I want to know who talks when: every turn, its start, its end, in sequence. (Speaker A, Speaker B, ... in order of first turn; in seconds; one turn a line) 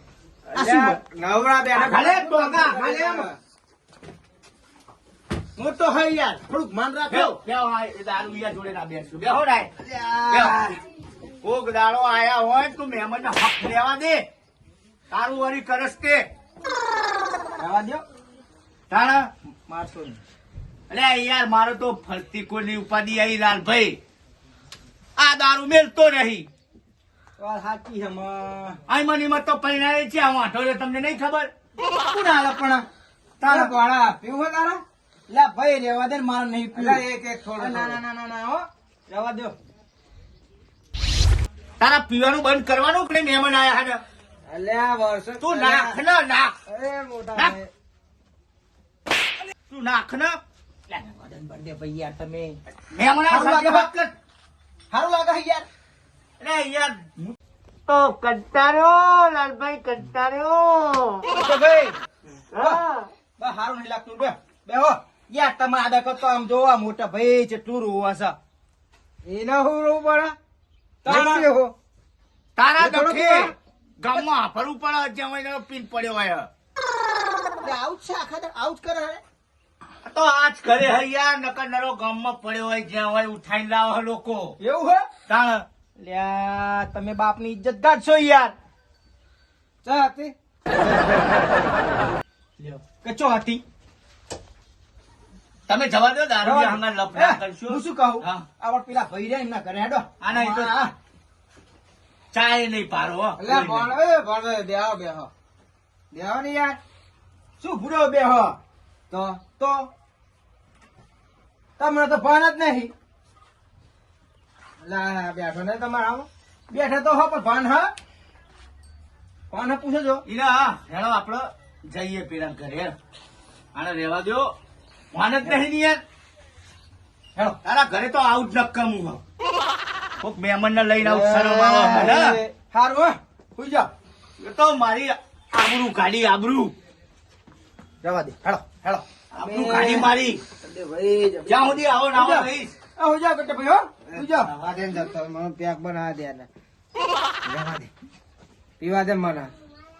Speaker A: 0.5-3.4
Speaker B: 0.5-1.0
Speaker C: 1.7-2.9
Speaker B: 2.4-3.3
Speaker B: 5.6-7.3
Speaker C: 7.1-9.7
Speaker B: 9.8-10.7
Speaker C: 10.3-10.8
Speaker C: 11.4-14.2
Speaker C: 15.1-16.3
Speaker B: 17.6-18.0
Speaker C: 18.9-19.3
Speaker B: 19.7-20.2
Speaker C: 20.9-24.0
Speaker C: 25.2-26.5
Speaker B: 27.4-28.8
Speaker C: 28.9-31.5
Speaker B: 32.1-32.8
Speaker C: 33.4-33.7
Speaker B: 33.4-33.8
Speaker A: 33.5-34.8
Speaker B: 35.3-37.0
Speaker A: 36.7-38.0
Speaker B: 37.6-39.5
Speaker C: 41.8-44.0
Speaker A: 44.5-46.0
Speaker C: 45.4-46.5
Speaker A: 46.7-47.7
Speaker C: 49.7-50.4
Speaker B: 50.9-52.6
Speaker C: 52.9-54.1
Speaker B: 53.3-53.9
Speaker B: 54.9-55.7
Speaker C: 56.4-57.1
Speaker C: 57.9-61.3
Speaker B: 61.3-62.0
Speaker C: 62.5-63.1
Speaker B: 62.5-62.8
Speaker B: 63.4-68.3
Speaker A: 69.2-70.3
Speaker B: 71.0-71.5
Speaker A: 71.0-71.7
Speaker C: 72.5-76.5
Speaker B: 72.8-73.5
Speaker B: 77.6-79.2
Speaker C: 80.0-84.5
Speaker B: 84.6-85.1
Speaker C: 85.3-85.6
Speaker B: 86.0-88.5
Speaker B: 89.8-90.3
Speaker B: 92.8-93.6
Speaker C: 95.7-98.4
Speaker B: 96.4-100.9
Speaker C: 100.2-100.7
Speaker C: 102.3-103.9
Speaker A: 103.4-105.3
Speaker A: 106.1-106.8
Speaker B: 107.6-108.6
Speaker A: 109.1-109.4
Speaker B: 109.4-109.9
Speaker B: 111.8-112.9
Speaker A: 114.8-116.3
Speaker B: 116.7-117.9
Speaker B: 119.5-120.2
Speaker C: 120.2-123.0
Speaker C: 123.7-124.5
Speaker C: 125.1-126.0
Speaker C: 127.6-129.2
Speaker C: 130.2-132.4
Speaker B: 131.0-133.9
Speaker C: 134.4-136.7
Speaker B: 138.0-139.1
Speaker C: 139.3-140.4
Speaker A: 139.4-141.8
Speaker C: 141.5-142.7
Speaker B: 142.1-144.5
Speaker A: 144.1-146.5
Speaker A: 147.4-147.9
Speaker A: 148.8-149.5